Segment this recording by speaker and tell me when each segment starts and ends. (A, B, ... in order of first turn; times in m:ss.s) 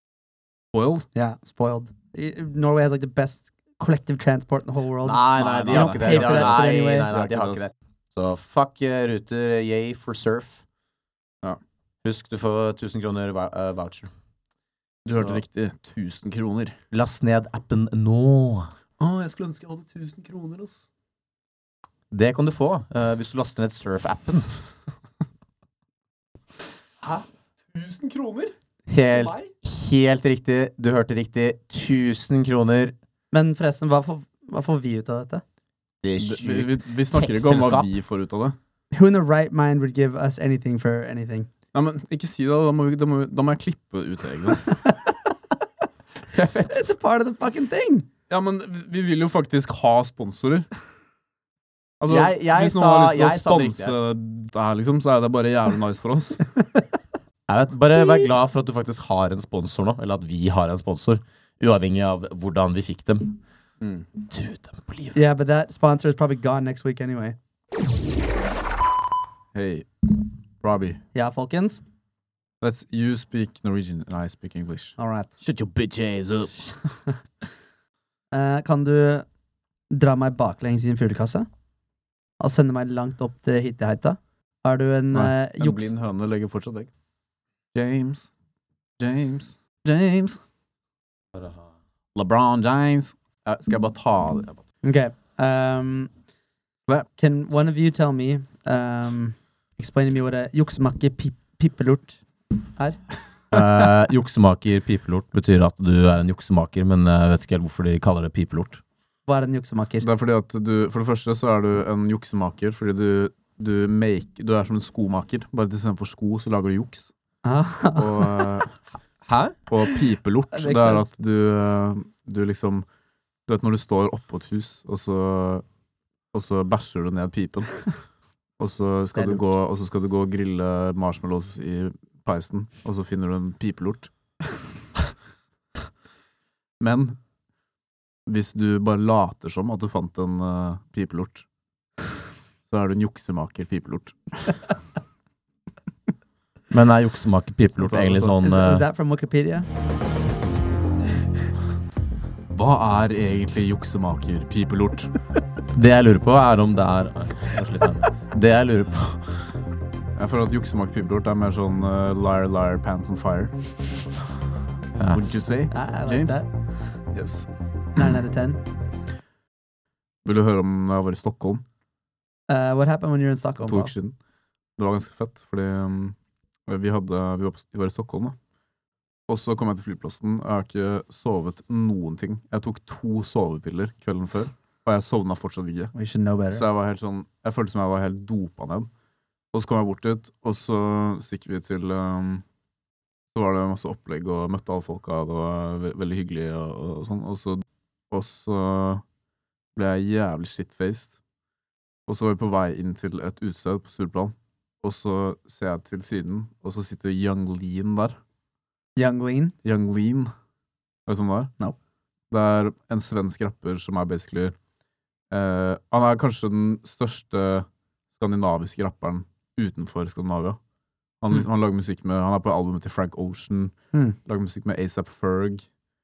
0:00.7-0:01.1 A
0:01.1-0:07.1 B
0:05.0-0:10.6 C
0:05.4-0:07.7 A
0:12.0-0:14.1 C
0:15.0-0:16.8 A
0:15.1-0:15.4 C
0:16.9-0:18.7 C
0:19.0-0:20.9 A
0:22.1-0:24.5 C
0:27.0-0:28.5 A
0:28.9-0:32.9 C
0:29.1-0:29.5 A
0:33.3-0:35.4 B
0:36.0-0:37.9 C
0:36.2-0:38.6 A
0:38.9-0:41.5 B
0:41.7-0:44.7 A
0:46.3-0:46.8 A
0:46.7-0:48.1 B
0:48.3-0:50.7 A
0:52.0-0:56.4 A
0:52.1-0:54.0 C
0:57.5-1:03.4 C
1:03.8-1:04.1 A
1:04.2-1:05.2 C
1:05.1-1:07.4 B
1:09.5-1:11.0 A
1:11.1-1:11.8 B
1:12.6-1:16.7 A
1:15.0-1:15.3 B
1:18.3-1:19.2 B
1:19.9-1:21.5 B
1:22.4-1:25.9 B
1:25.1-1:26.9 A
1:27.7-1:28.3 A
1:29.0-1:30.4 A
1:32.1-1:34.6 A
1:34.8-1:36.1 B
1:37.2-1:42.2 B
1:42.8-1:43.0 B
1:43.5-1:48.8 C
1:49.3-1:50.1 B
1:50.0-1:57.1 A
1:57.4-1:58.5 B
1:58.0-1:58.7 A
1:59.2-1:59.6 C
1:59.7-2:02.8 A
2:00.5-2:01.1 B
2:03.5-2:05.6 A
2:06.3-2:07.7 A
2:08.6-2:14.1 A
2:09.2-2:09.4 B
2:16.8-2:17.2 A
2:18.3-2:21.4 A
2:22.6-2:24.6 A
2:26.7-2:28.8 C
2:27.8-2:28.4 A
2:28.4-2:29.7 B
2:32.5-2:35.1 A
2:35.7-2:39.2 C
2:40.2-2:43.5 A
2:45.1-2:46.4 A
2:45.7-2:46.5 B
2:47.1-2:47.5 A
2:48.0-2:48.6 B
2:50.2-2:51.6 A
2:52.5-2:53.9 B
2:53.6-2:54.2 A
2:54.8-2:56.2 A
2:56.7-2:58.4 A
2:59.3-3:05.9 A
3:05.9-3:06.6 B
3:06.5-3:08.9 A
3:09.5-3:12.4 A
3:13.3-3:19.0 A
3:19.7-3:21.2 A
3:22.1-3:28.2 A
3:29.0-3:29.5 B
3:29.6-3:30.3 A
3:31.1-3:31.5 A
3:32.3-3:34.5 A
3:35.3-3:40.6 A
3:41.2-3:43.7 A
3:44.2-3:45.6 A